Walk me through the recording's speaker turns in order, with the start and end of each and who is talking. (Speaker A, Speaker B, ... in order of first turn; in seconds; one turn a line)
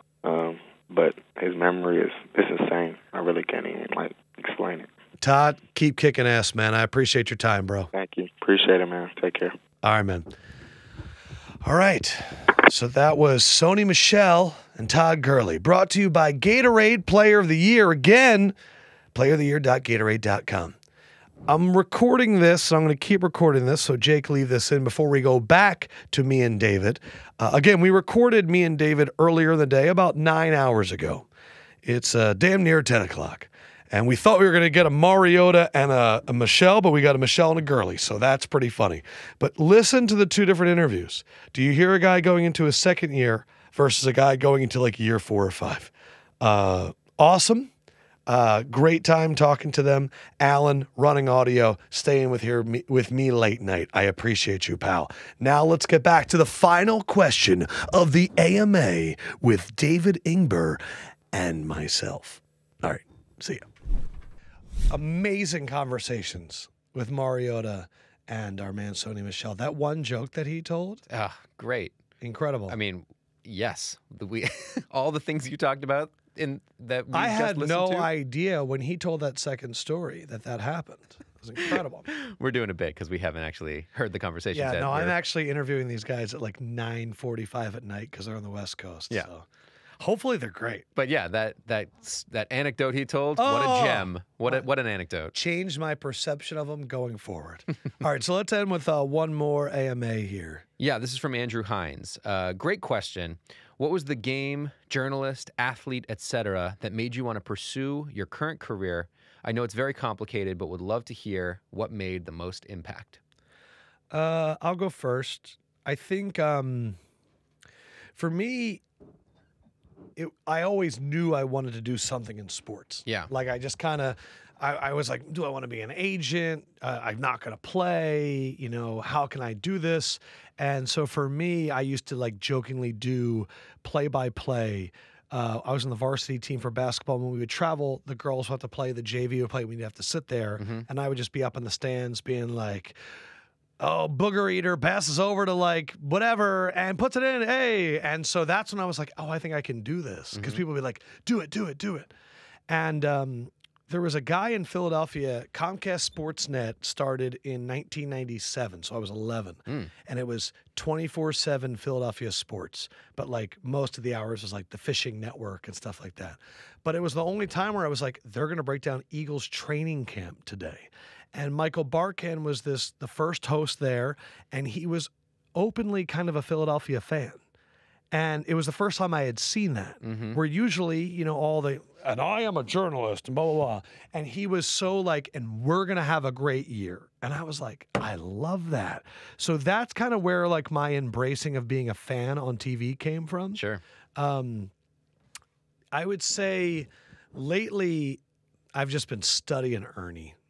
Speaker A: 0.2-4.9
Speaker B: 5.2-7.9
Speaker A: 7.9-9.6
Speaker B: 9.8-10.3
Speaker B: 11.6-18.6
Speaker B: 19.1-20.8
Speaker B: 21.5-31.3
Speaker B: 31.8-47.7
Speaker B: 48.3-60.8
Speaker B: 61.3-63.6
Speaker B: 64.9-71.0
Speaker C: 71.1-71.9
Speaker B: 72.2-72.8
Speaker C: 72.7-78.1
Speaker B: 77.1-82.1
Speaker C: 81.6-85.2
Speaker B: 84.5-89.5
Speaker B: 90.0-90.9
Speaker C: 91.0-95.3
Speaker B: 93.4-94.7
Speaker B: 95.3-100.6
Speaker C: 100.8-113.2
Speaker B: 114.1-117.0
Speaker B: 118.2-118.8
Speaker B: 120.2-143.0
Speaker C: 140.6-140.9
Speaker B: 143.8-152.1
Speaker C: 150.3-150.6
Speaker B: 152.7-177.4
Speaker B: 178.1-193.6
Speaker C: 180.0-180.4
Speaker C: 193.5-193.8
Speaker B: 194.2-194.7
Speaker B: 195.9-198.2
Speaker B: 198.7-200.4